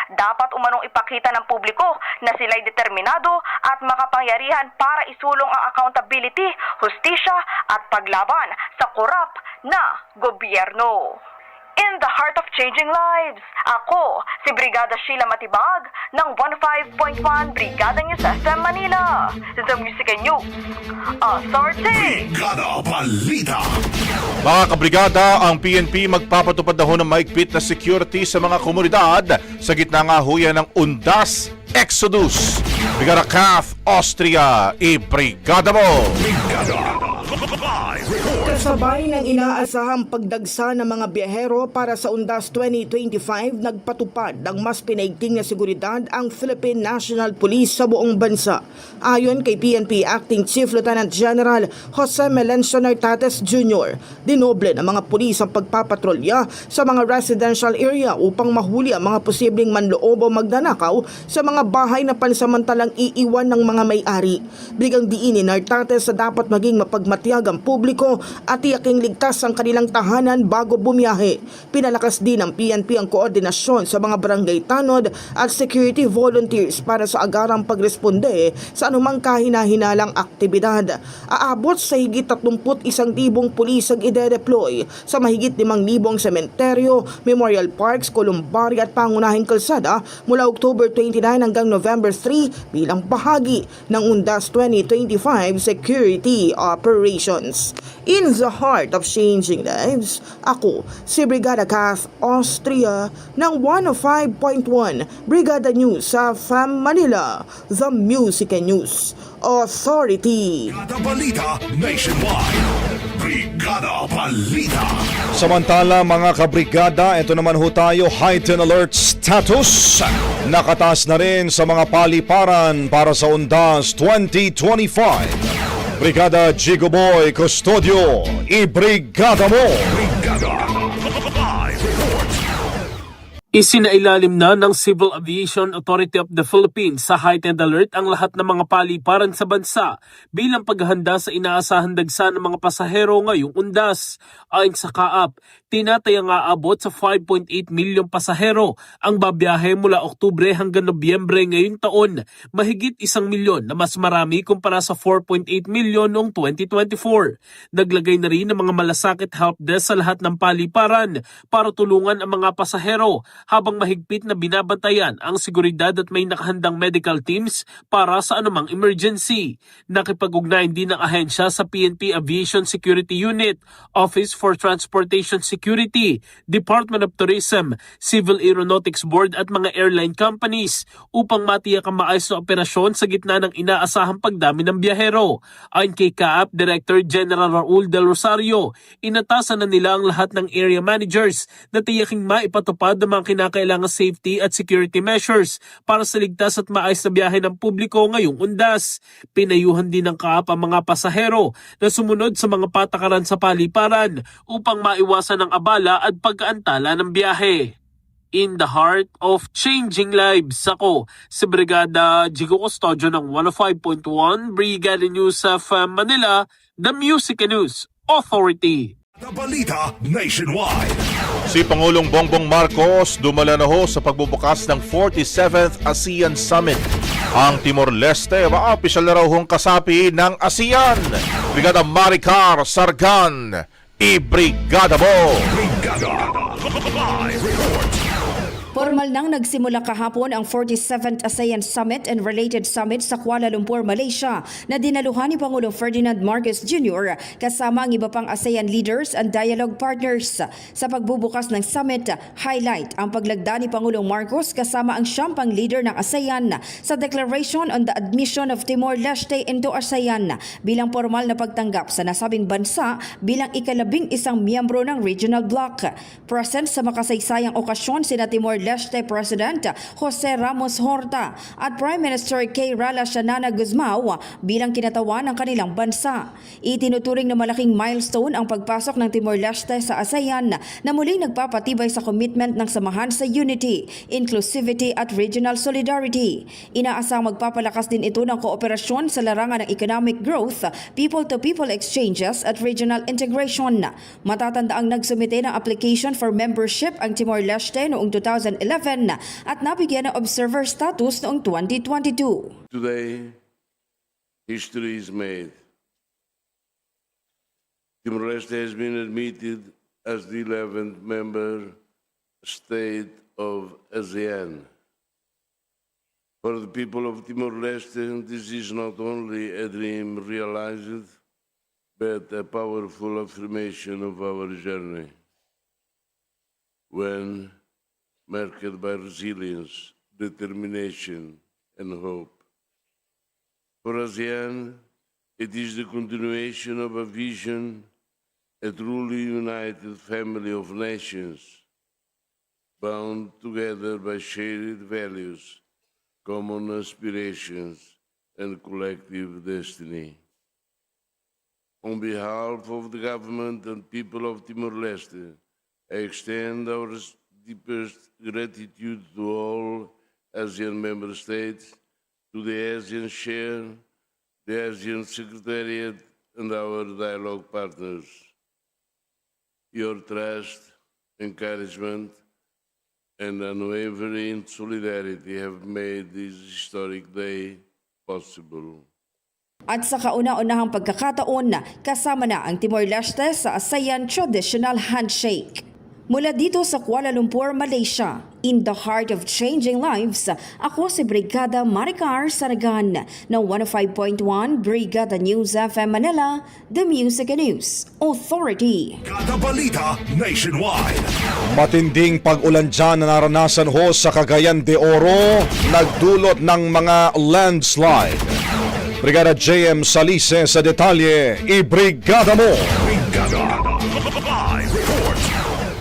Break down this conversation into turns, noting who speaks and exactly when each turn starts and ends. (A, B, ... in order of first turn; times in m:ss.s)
0:00.2-0:11.2 A
0:11.8-0:20.4 A
0:21.2-0:22.3 A
0:21.9-0:23.7 B
0:24.4-0:36.1 C
0:36.2-0:38.7 B
0:38.4-1:50.8 D
1:50.7-1:55.0 B
1:55.3-2:05.4 E
2:06.0-2:09.9 E
2:09.9-2:12.4 B
2:13.6-2:24.0 F
2:24.5-3:27.6 F
3:28.4-3:38.9 F
3:39.2-3:41.0 B
3:41.5-3:46.8 C
3:47.4-3:55.4 C
3:55.5-3:58.0 B
3:58.8-5:02.5 G
5:02.7-5:03.4 H
5:04.5-5:05.6 H
5:08.0-5:11.8 H
5:12.4-5:14.7 H
5:16.4-5:21.1 H
5:22.0-5:25.1 H
5:26.9-5:27.5 H
5:28.3-5:32.4 H
5:33.8-5:34.8 H
5:35.4-5:37.8 H
5:38.6-5:41.6 H
5:42.8-5:45.6 H
5:46.2-5:50.2 H
5:51.8-5:55.4 H
5:55.9-6:01.8 H
6:02.3-6:03.8 H
6:04.5-6:08.3 H
6:09.7-6:12.2 H
6:13.2-6:18.8 H
6:19.7-6:39.0 G
6:39.0-6:41.1 B
6:41.5-6:48.3 E
6:49.0-6:52.7 E
6:52.8-6:55.3 B